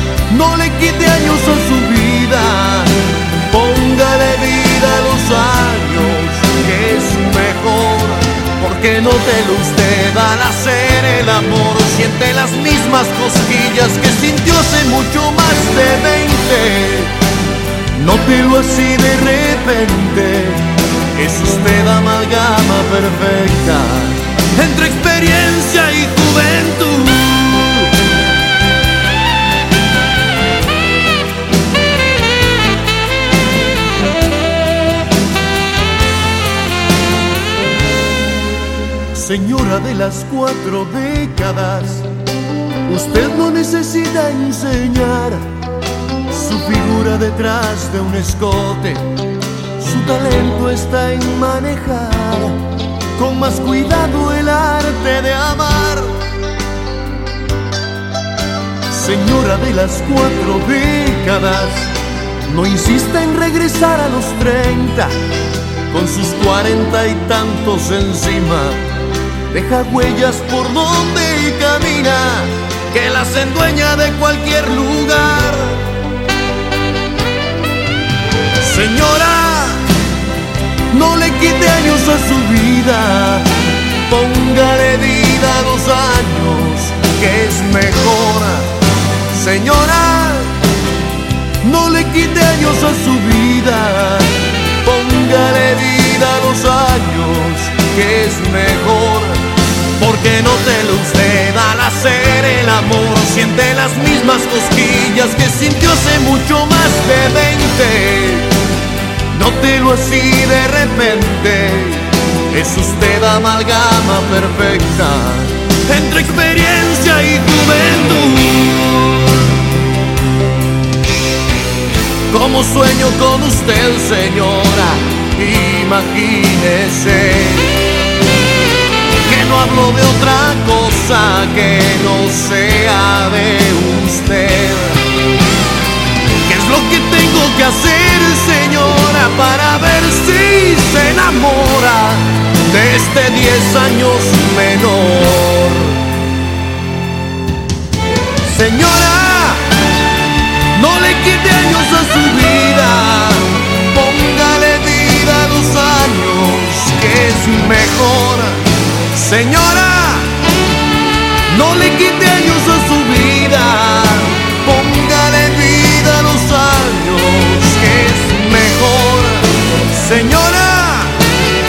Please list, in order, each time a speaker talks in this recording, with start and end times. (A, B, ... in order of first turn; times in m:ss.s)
0:00.3-0:03.0 A
0:03.5-0:17.1 A
0:17.9-0:27.9 A
0:39.1-0:42.1 A
0:42.9-0:45.4 A
0:46.3-0:49.1 A
0:49.8-0:52.6 A
0:53.2-0:56.2 A
0:58.9-1:01.9 A
1:02.4-1:05.1 A
1:05.9-1:08.8 A
1:09.5-1:15.8 A
1:18.6-1:19.9 A
1:20.9-1:23.5 A
1:24.1-1:28.7 A
1:29.3-1:30.5 A
1:31.6-1:39.4 A
1:40.0-1:48.5 A
1:49.3-1:59.2 A
2:02.3-2:07.8 A
2:09.2-2:15.0 A
2:16.4-2:26.0 A
2:28.4-2:29.7 A
2:30.7-2:38.6 A
2:39.1-2:40.3 A
2:41.5-2:51.2 A